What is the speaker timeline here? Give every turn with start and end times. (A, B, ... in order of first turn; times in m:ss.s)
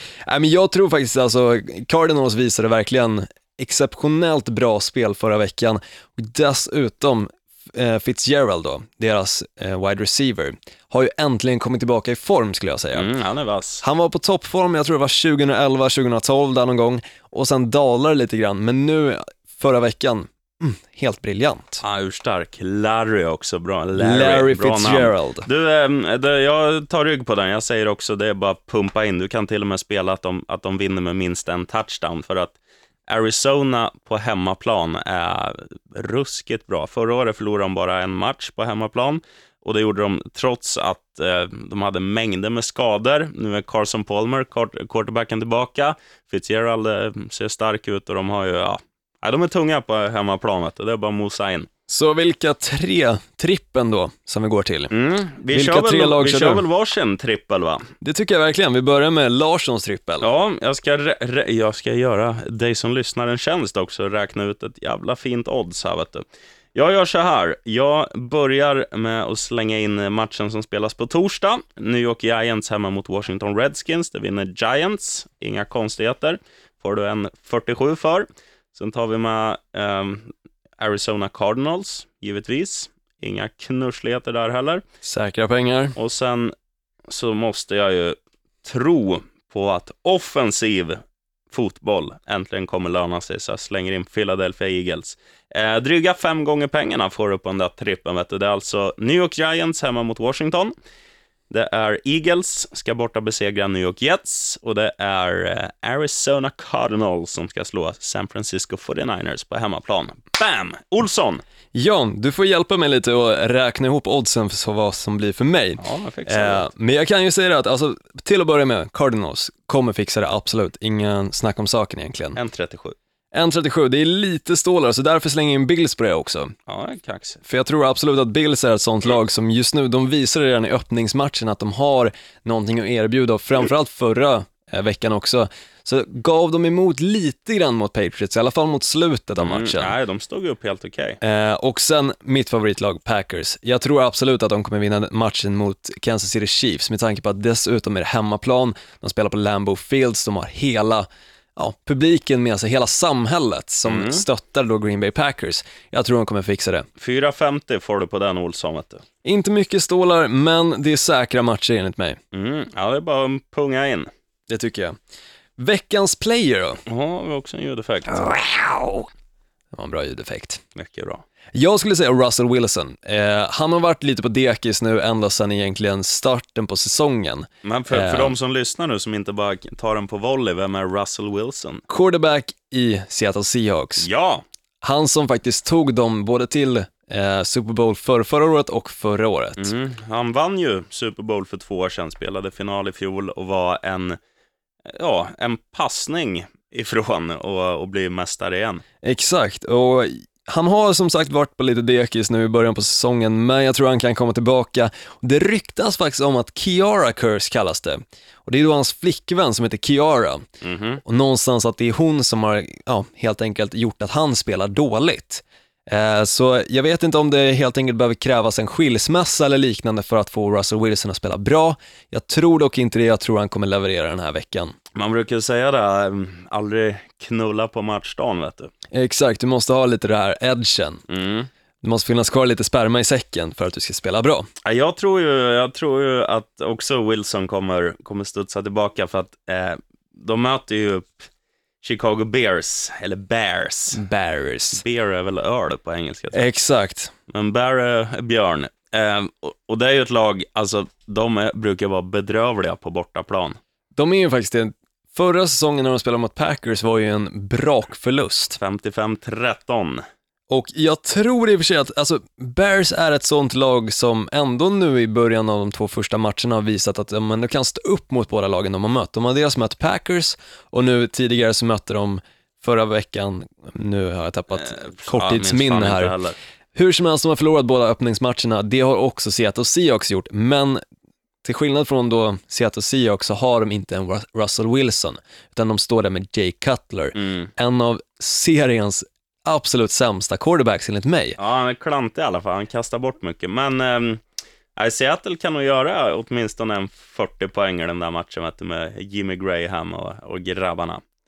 0:00.2-0:13.1 A
0:12.9-0:13.8 B
0:13.8-0:21.8 A
0:21.8-0:32.6 B
0:24.0-0:25.4 A
0:33.1-0:51.7 B
0:51.9-0:54.9 A
0:54.9-0:57.8 B
0:55.5-0:56.6 A
0:58.0-1:00.3 A
1:00.2-1:06.2 B
1:06.7-1:24.8 B
1:25.0-1:26.0 A
1:26.0-1:26.5 B
1:27.1-1:31.0 B
1:31.5-1:40.7 B
1:41.5-1:51.4 B
1:51.7-2:02.4 A
1:55.8-1:56.7 B
2:02.3-2:03.0 B
2:03.3-2:06.5 A
2:06.7-2:07.4 B
2:07.4-2:19.9 A
2:19.4-2:21.2 B
2:21.2-2:36.9 A
2:33.8-2:34.2 B
2:37.0-2:39.0 B
2:39.2-2:42.2 A
2:42.3-2:44.1 B
2:44.5-2:45.0 A
2:45.6-2:46.8 A
2:46.9-2:48.3 B
2:48.2-2:48.6 A
2:49.7-2:50.6 A
2:50.7-2:51.2 B
2:51.5-2:58.3 A
2:57.6-3:01.8 B
3:01.9-3:04.1 A
3:04.0-3:04.4 B
3:04.8-3:09.7 A
3:09.6-3:14.2 B
3:14.9-3:18.8 B
3:19.0-3:30.4 A
3:30.6-3:31.0 B
3:31.0-3:44.7 A
3:44.9-3:48.7 B
3:48.9-3:51.0 A
3:51.1-3:51.5 B
3:51.8-3:54.5 A
3:54.6-4:01.2 B
4:01.8-4:04.0 B
4:03.9-4:04.8 A
4:04.7-4:06.4 B
4:06.3-4:07.1 A
4:07.3-4:13.6 B
4:13.9-4:18.6 A
4:18.6-4:20.0 B
4:20.5-4:36.2 A
4:34.5-4:36.4 B
4:36.7-4:40.8 A
4:41.4-4:51.4 A
4:47.1-4:47.5 B
4:51.4-4:54.2 B
4:54.8-5:01.0 B